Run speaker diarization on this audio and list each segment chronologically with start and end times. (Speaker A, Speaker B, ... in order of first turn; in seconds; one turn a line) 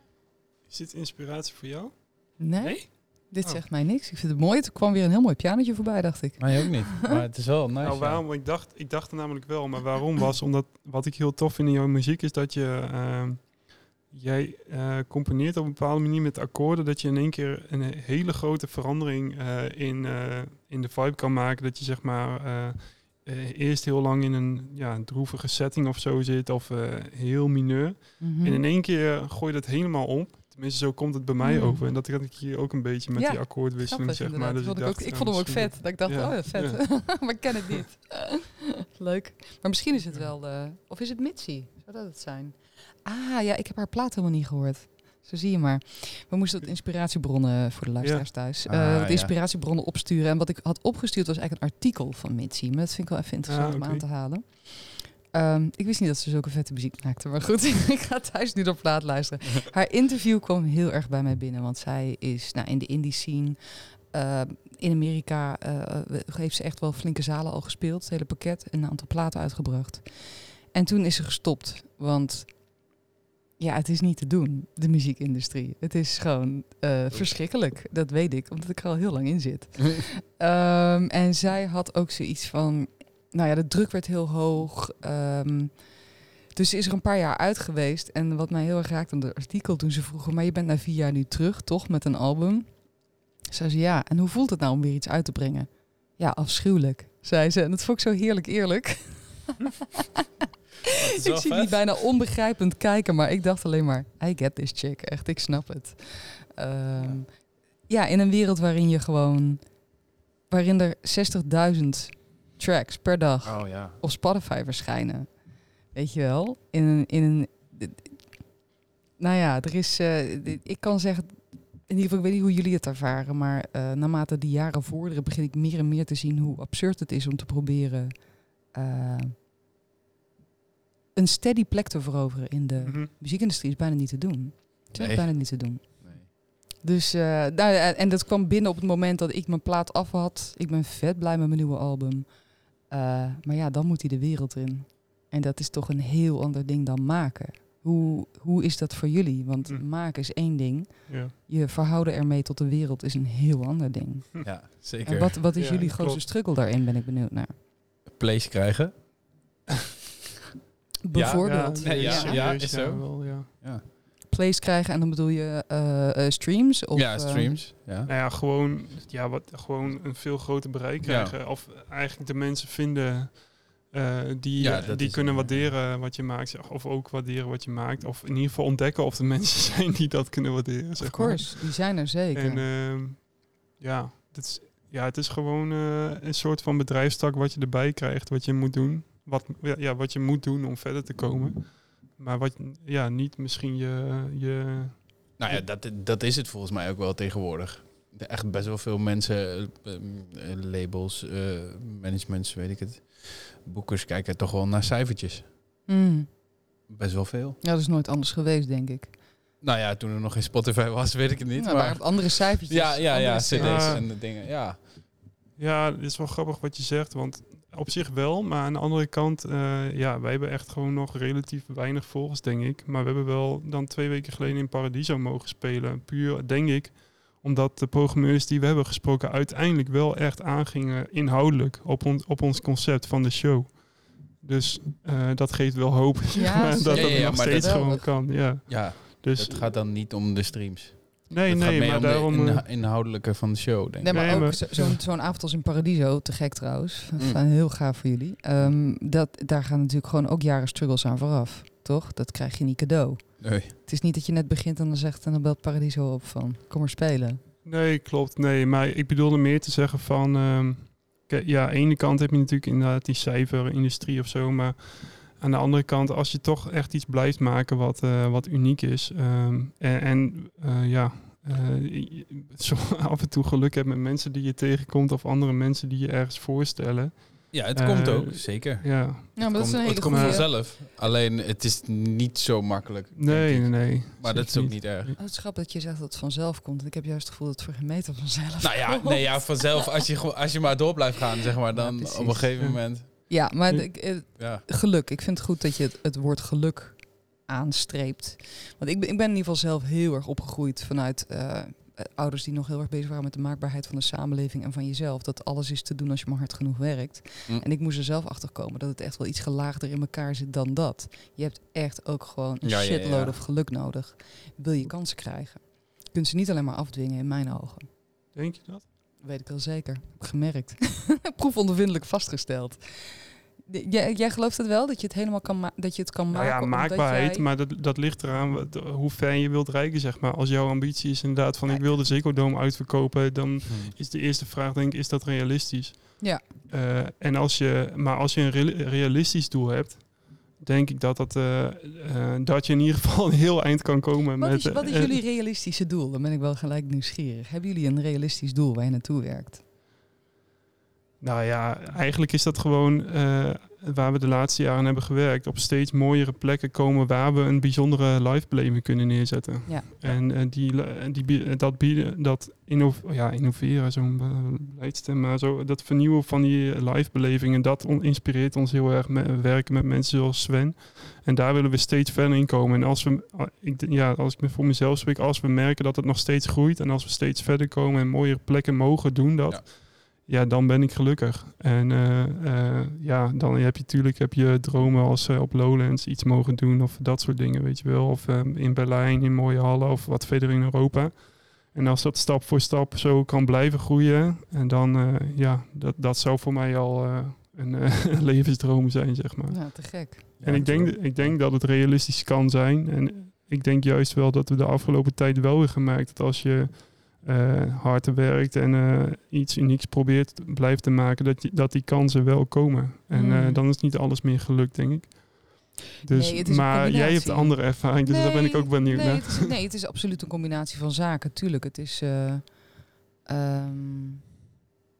Speaker A: 0.7-3.6
Speaker B: 2.4-7.2
Speaker C: 6.4-8.2
Speaker A: 7.8-37.4
Speaker B: 28.2-28.6
Speaker B: 31.4-31.8
Speaker B: 33.1-72.8
Speaker C: 48.6-49.3
Speaker A: 53.5-54.1
Speaker B: 73.6-99.7
Speaker C: 100.9-101.9
Speaker B: 101.2-109.9
Speaker B: 110.5-118.3
Speaker C: 113.4-114.0
Speaker B: 119.2-129.3
Speaker B: 131.1-157.6
Speaker A: 132.8-133.1
Speaker C: 134.9-136.3
Speaker A: 151.1-151.3
Speaker C: 154.4-155.4
Speaker A: 155.5-156.2
Speaker C: 158.1-159.0
Speaker B: 161.0-162.5
Speaker C: 161.1-163.8
Speaker A: 161.4-163.5
Speaker B: 164.3-167.5
Speaker C: 166.9-168.1
Speaker A: 168.1-195.7
Speaker C: 171.0-171.4
Speaker C: 174.6-175.8
Speaker B: 181.0-182.7
Speaker C: 195.4-205.5
Speaker B: 205.9-206.3
Speaker C: 206.9-207.6
Speaker B: 207.6-209.2
Speaker C: 209.6-214.8
Speaker B: 211.6-214.0
Speaker A: 213.6-214.0
Speaker A: 215.6-239.6
Speaker B: 236.3-238.1
Speaker C: 236.9-244.6
Speaker A: 241.3-242.6
Speaker B: 244.0-257.4
Speaker A: 244.1-245.0
Speaker C: 247.2-247.4
Speaker C: 253.4-253.7
Speaker A: 257.6-280.4
Speaker C: 277.5-285.1
Speaker B: 279.4-280.5
Speaker A: 283.1-285.2
Speaker B: 285.2-289.7
Speaker C: 288.6-293.3
Speaker B: 291.7-292.7
Speaker A: 292.6-293.9
Speaker B: 293.3-317.9
Speaker C: 294.4-294.6
Speaker C: 312.6-313.4
Speaker A: 318.3-318.8
Speaker B: 319.2-327.5
Speaker A: 326.3-345.2
Speaker B: 331.7-332.1
Speaker C: 333.7-333.9
Speaker B: 344.4-349.6
Speaker A: 351.2-419.5
Speaker B: 399.5-400.3
Speaker C: 400.4-401.4
Speaker B: 413.1-413.6
Speaker B: 416.1-424.2